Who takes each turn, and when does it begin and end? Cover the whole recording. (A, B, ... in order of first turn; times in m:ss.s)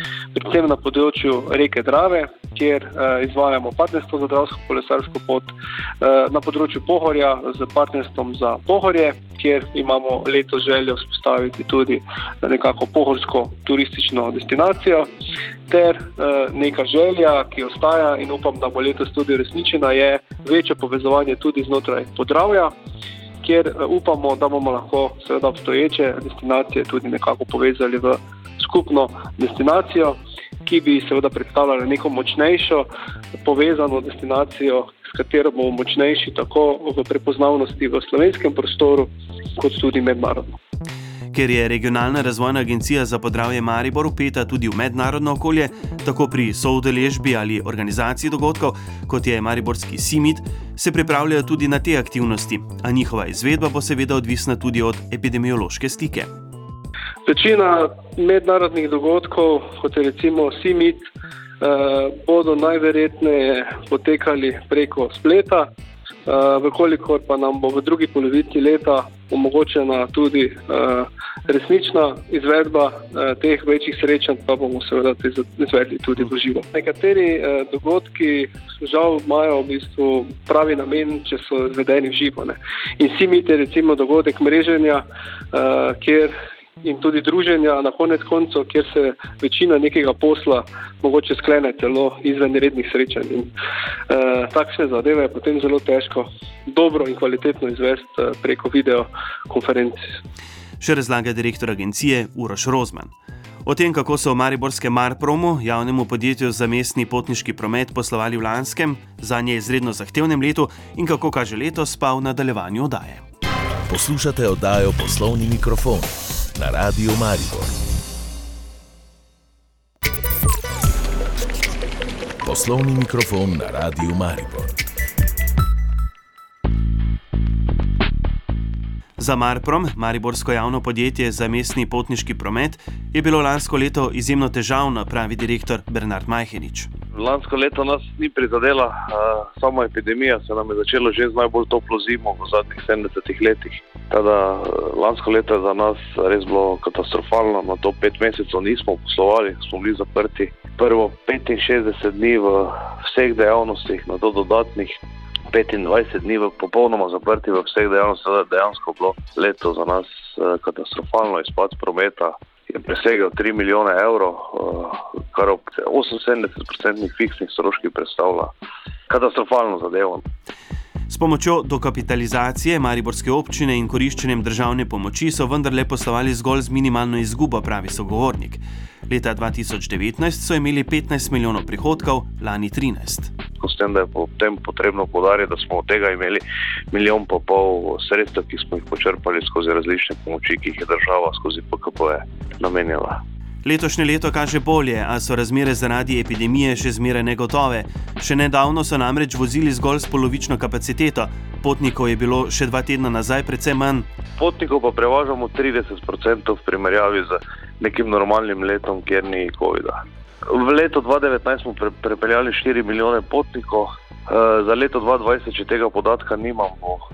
0:00.3-0:15.1 A
0:15.7-0:22.7 A
0:23.4-0:32.9 A
0:33.4-0:40.5 A
0:41.3-0:56.3 B
0:57.2-1:01.0 A
1:01.6-1:05.7 A
1:06.3-1:26.3 A
1:26.8-1:33.5 A
1:34.1-1:40.1 A
1:40.8-1:43.1 B
1:43.6-1:53.2 B
1:53.9-1:57.7 C
2:02.4-2:04.8 C
2:09.2-2:16.9 B
2:17.1-2:35.0 D
2:35.5-2:48.5 D
2:49.1-2:50.2 D
2:51.1-3:03.3 B
3:03.6-3:13.2 D
3:13.6-3:24.1 B
3:24.4-3:37.0 D